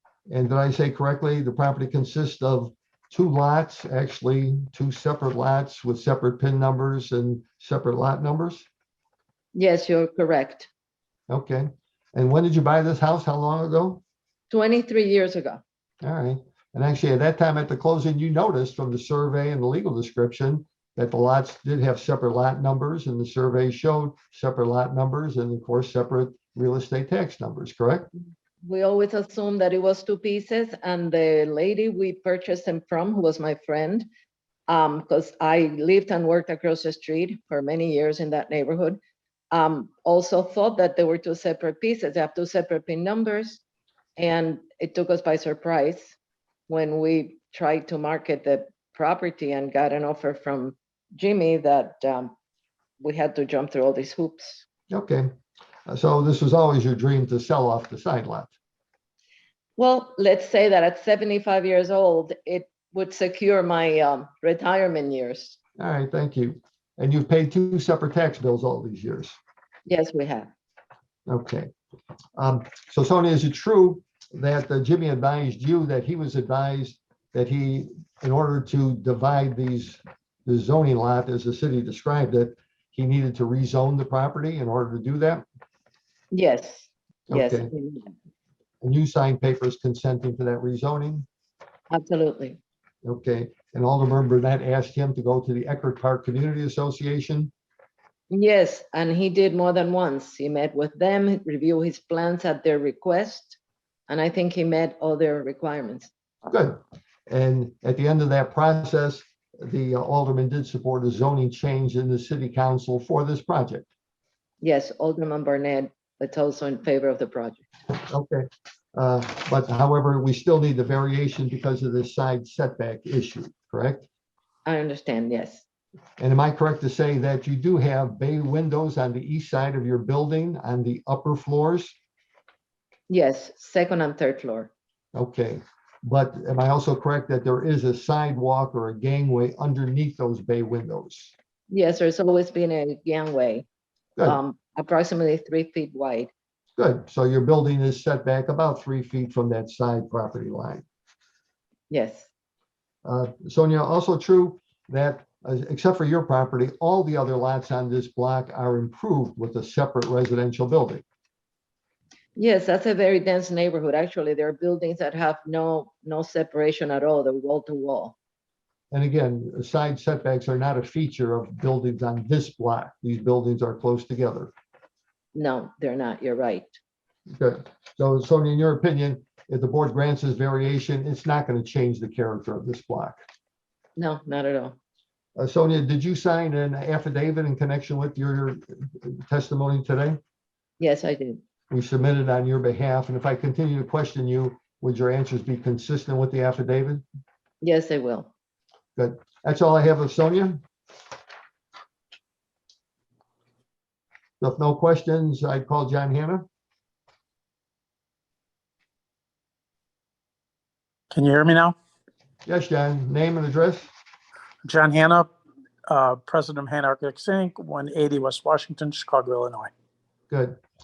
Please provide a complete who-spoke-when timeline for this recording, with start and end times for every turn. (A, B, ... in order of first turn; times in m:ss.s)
0:00.3-0:08.7 A
0:09.5-0:10.7 B
0:11.3-0:14.0 A
0:14.5-0:15.6 B
0:16.0-0:28.1 A
0:28.6-0:34.1 B
0:34.7-0:39.0 B
0:39.5-0:43.6 B
0:44.2-0:46.1 B
0:46.7-0:52.3 B
0:53.0-0:54.6 B
0:54.9-0:55.3 A
0:55.9-0:58.5 A
0:59.8-1:05.6 B
1:05.8-1:09.4 A
1:09.8-1:10.5 B
1:11.3-1:11.7 A
1:12.4-1:25.4 A
1:26.3-1:28.1 B
1:27.3-1:27.7 A
1:28.8-1:31.2 A
1:31.9-1:32.6 B
1:33.0-1:37.5 A
1:38.3-1:43.6 B
1:44.1-1:46.1 B
1:46.4-1:46.8 A
1:47.3-1:53.9 A
1:54.6-1:57.6 B
1:58.1-2:04.1 A
2:04.6-2:05.6 B
2:06.2-2:12.0 A
2:13.1-2:14.7 B
2:15.1-2:21.3 A
2:21.7-2:23.6 B
2:24.2-2:26.3 B
2:26.8-2:30.8 A
2:31.9-2:32.3 B
2:33.0-2:41.0 A
2:42.4-2:48.2 B
2:48.9-2:54.5 A
2:55.3-2:56.8 B
2:57.3-3:03.2 A
3:04.0-3:04.8 B
3:05.4-3:10.2 A
3:10.8-3:11.4 B
3:11.7-3:17.0 A
3:17.6-3:18.3 B
3:19.0-3:20.6 A
3:24.4-3:26.4 A
3:31.1-3:31.7 C
3:32.4-3:33.9 A
3:34.6-3:35.3 C
3:35.9-3:39.7 C
3:40.3-3:40.6 A